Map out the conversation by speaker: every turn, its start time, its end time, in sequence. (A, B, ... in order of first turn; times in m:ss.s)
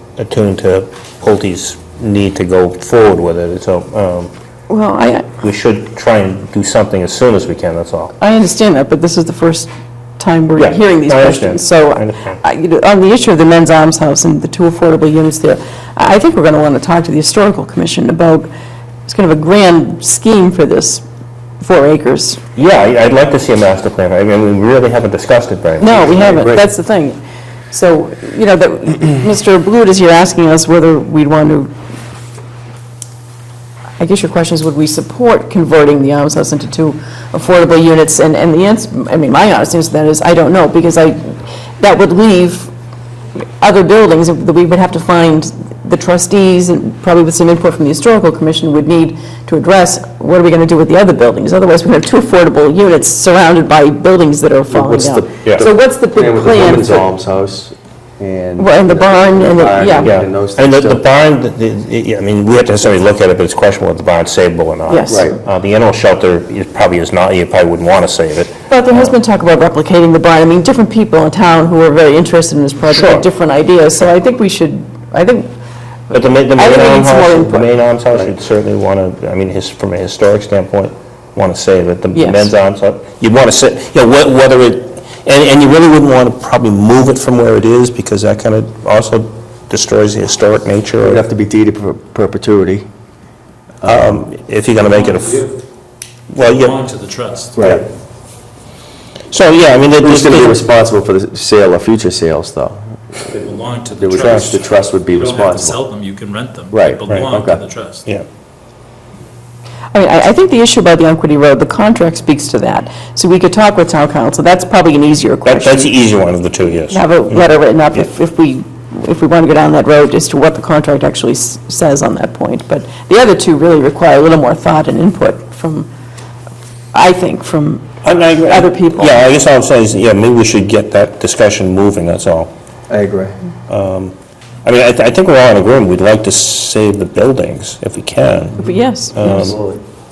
0:00.2-0:04.3 A
0:04.7-0:05.3 B
0:05.4-0:08.1 A
0:08.2-0:18.5 B
0:10.6-0:12.4 A
0:19.1-0:21.0 B
0:21.6-0:22.4 B
0:22.6-0:26.1 A
0:25.8-0:27.2 B
0:26.0-0:26.7 C
0:27.7-0:31.7 B
0:34.0-0:42.7 B
0:43.4-0:57.1 B
0:54.7-1:01.0 C
0:58.6-1:00.1 B
1:00.0-1:09.1 A
1:04.9-1:05.3 B
1:05.1-1:05.4 C
1:08.7-1:15.5 B
1:12.9-1:13.3 A
1:16.1-1:17.8 B
1:16.1-1:31.2 A
1:22.1-1:22.5 B
1:31.0-1:32.9 C
1:33.8-1:34.2 C
1:33.8-1:35.5 A
1:34.8-1:35.5 D
1:36.3-1:36.8 A
1:36.4-1:37.8 D
1:37.6-1:37.9 C
1:39.3-1:40.7 A
1:40.0-1:43.3 C
1:43.3-1:48.0 D
1:44.0-1:45.8 C
1:44.2-1:44.5 A
1:46.7-1:47.7 C
1:49.9-1:55.9 B
1:55.5-1:58.1 A
1:56.9-2:05.9 B
2:06.9-2:07.9 B
2:08.0-2:12.5 A
2:08.4-2:09.2 B
2:12.9-2:13.4 C
2:13.7-2:19.6 A
2:18.6-2:19.8 C
2:18.6-2:19.4 B